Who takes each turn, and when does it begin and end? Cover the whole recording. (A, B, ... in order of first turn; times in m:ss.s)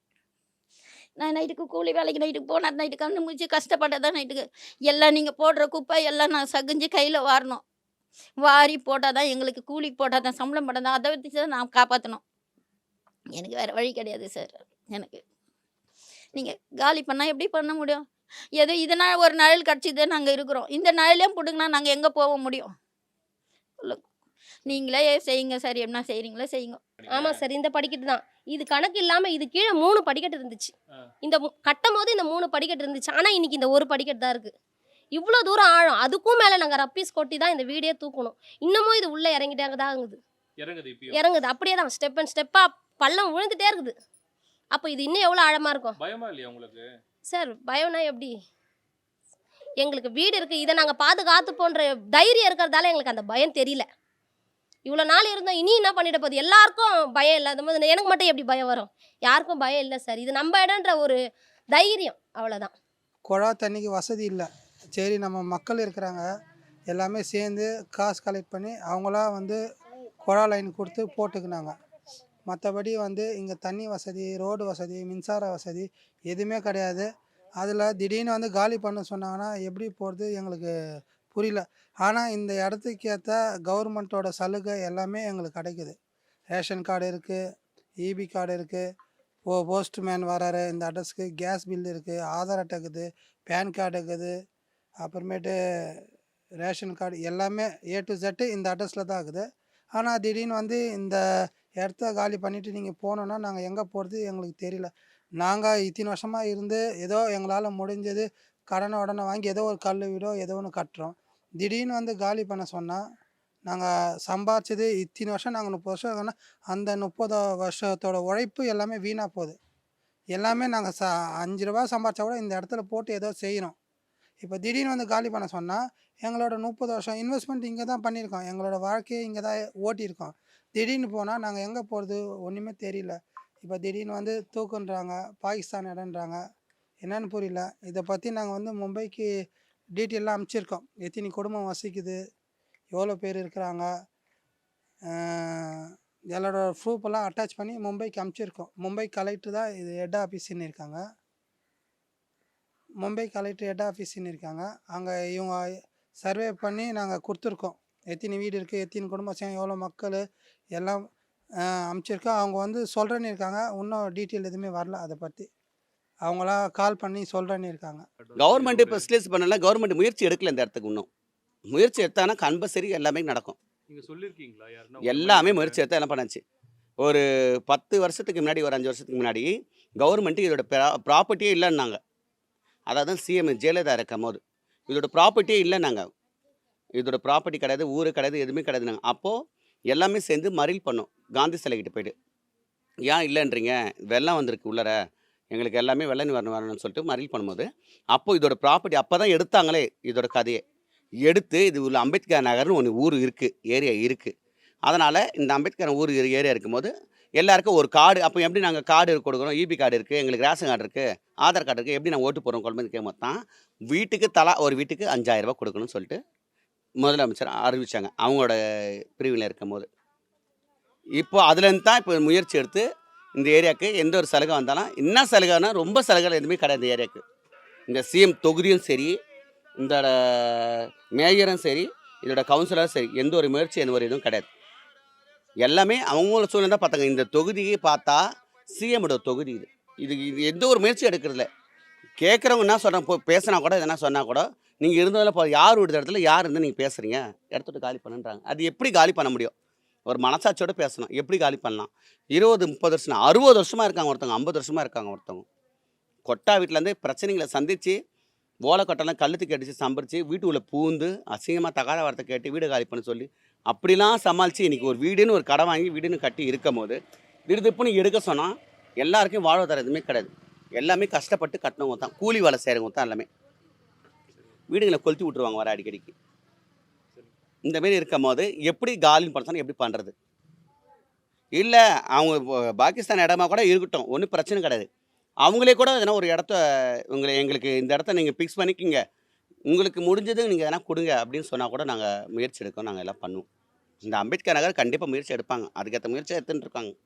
0:01.2-0:07.6 A
0:08.4-0:12.2 A
0:13.4-0:15.2 A
0:16.3-0:18.0 A
0:18.6-0:22.7 A
0:24.7-0:26.8 A
0:27.0-0:27.4 B
0:27.1-0:34.5 C
0:35.2-0:40.2 C
0:40.6-0:41.2 B
0:41.1-0:43.9 C
0:44.7-0:46.0 C
0:46.0-0:46.8 B
0:47.3-0:48.3 C
0:49.8-0:53.9 C
0:54.9-1:01.2 C
1:01.7-1:02.7 C
1:03.3-1:06.2 D
1:06.9-1:09.6 D
1:10.2-1:11.7 D
1:12.5-1:17.1 D
1:17.6-1:20.7 D
1:21.3-1:26.0 D
1:26.5-1:27.4 D
1:28.0-1:28.8 D
1:29.5-1:34.3 D
1:35.0-1:35.5 D
1:36.6-1:39.4 D
1:40.0-1:41.2 D
1:41.8-1:44.9 D
1:45.4-1:53.0 D
1:53.7-1:59.6 D
2:00.4-2:03.8 D
2:04.4-2:16.4 D
2:17.0-2:19.3 D
2:20.0-2:22.2 D
2:23.0-2:23.9 D
2:25.1-2:31.0 D
2:33.0-2:35.6 D
2:36.2-2:40.2 D
2:41.9-2:45.5 D
2:46.3-2:48.0 D
2:48.2-2:49.1 B
2:48.4-2:51.1 E
2:51.7-2:53.6 E
2:53.9-2:55.8 B
2:55.0-2:56.4 E
2:57.0-3:02.0 E
3:02.9-3:06.1 E
3:07.0-3:09.4 E
3:09.9-3:12.2 E
3:13.0-3:15.0 E
3:15.5-3:20.6 E
3:21.2-3:24.3 E
3:24.9-3:33.4 E
3:33.9-3:36.2 E
3:37.0-3:38.6 E
3:39.2-3:39.9 E
3:41.2-3:42.9 E
3:43.4-3:47.2 E
3:47.9-3:49.1 E
3:49.8-3:54.5 E
3:55.6-3:58.2 E
3:58.7-4:01.5 E
4:02.2-4:09.5 E
4:10.1-4:15.5 E
4:16.3-4:18.0 E
4:18.6-4:33.3 E
4:34.3-4:34.6 B
4:34.7-4:36.1 E
4:37.1-4:37.4 B
4:37.7-4:40.1 E
4:41.6-4:44.9 E
4:45.4-4:46.6 E
4:47.1-4:49.0 E
4:49.7-4:53.5 E
4:54.0-4:57.0 E